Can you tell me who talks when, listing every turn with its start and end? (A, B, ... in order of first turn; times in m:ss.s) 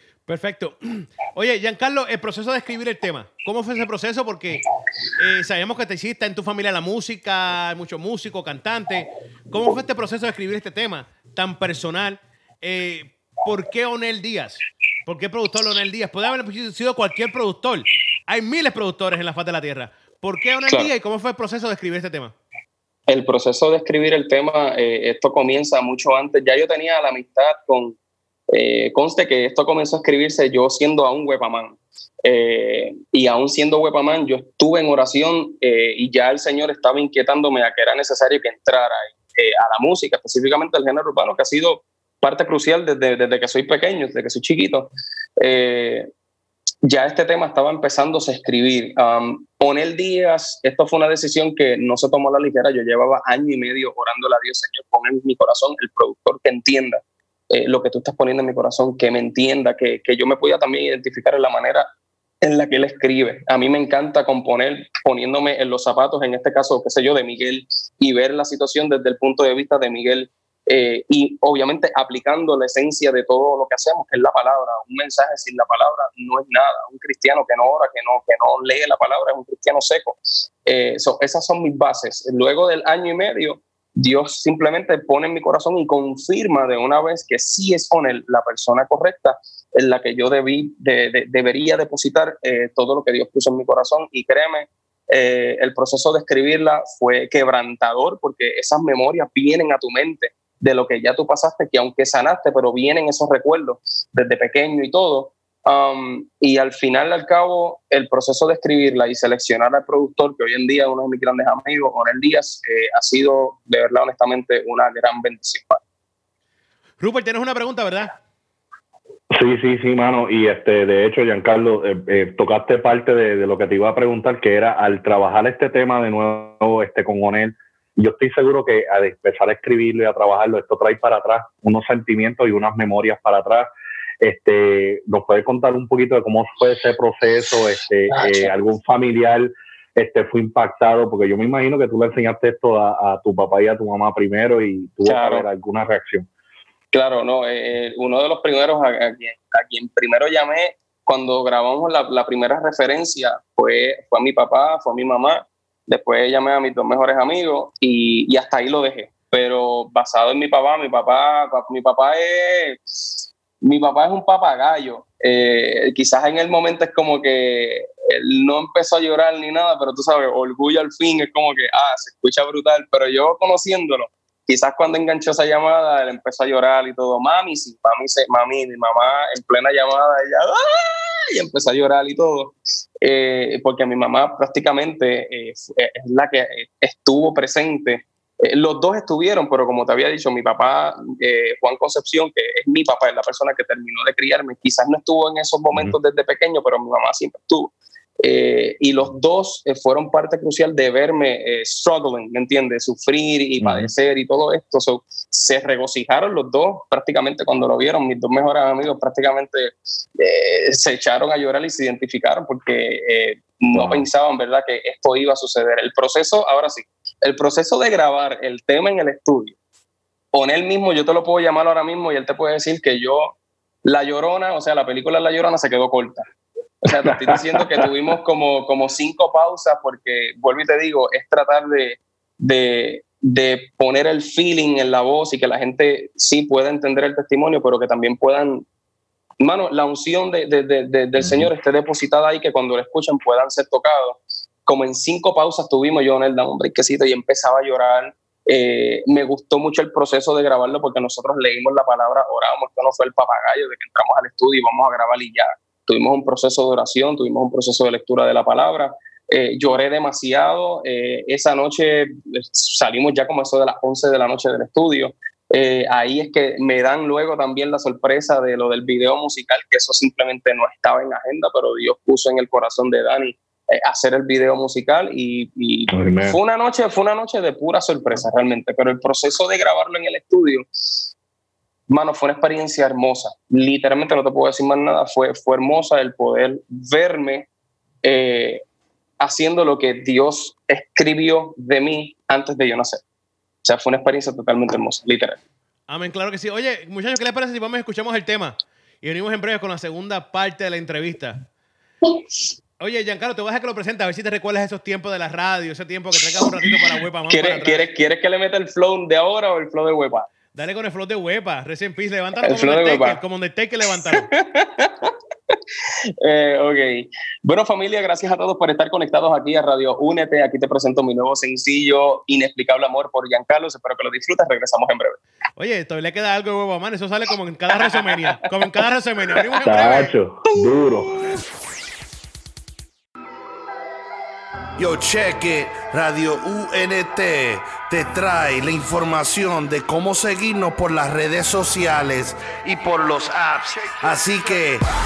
0:00.3-0:04.6 A
0:05.2-0:22.3 A
0:23.1-0:28.0 B
0:28.5-0:46.1 B
0:46.8-1:01.9 B
1:02.4-1:55.8 B
1:57.0-1:58.1 A
1:59.3-2:13.7 C
2:14.2-2:26.3 C
2:18.1-2:18.5 B
2:25.1-2:25.4 B
2:26.9-2:43.0 B
2:43.6-3:39.6 B
3:23.6-3:23.9 C
3:33.7-3:34.1 C
3:40.3-3:46.3 B
3:46.8-3:58.7 B
3:46.9-3:47.9 C
3:59.4-4:41.1 B
4:01.2-4:01.5 C
4:35.9-4:36.4 C
4:41.9-4:47.5 B
4:48.0-4:48.6 B
4:49.2-4:53.0 B
4:53.6-4:55.4 B
4:55.9-5:01.4 A
5:02.8-5:07.9 A
5:07.3-5:10.3 B
5:10.6-5:14.3 A
5:12.4-5:13.2 B
5:14.1-5:15.6 B
5:16.2-5:25.2 B
5:25.6-5:30.2 A
5:27.9-5:28.3 B
5:29.6-5:31.2 C
5:30.5-5:31.3 B
5:34.8-5:44.9 D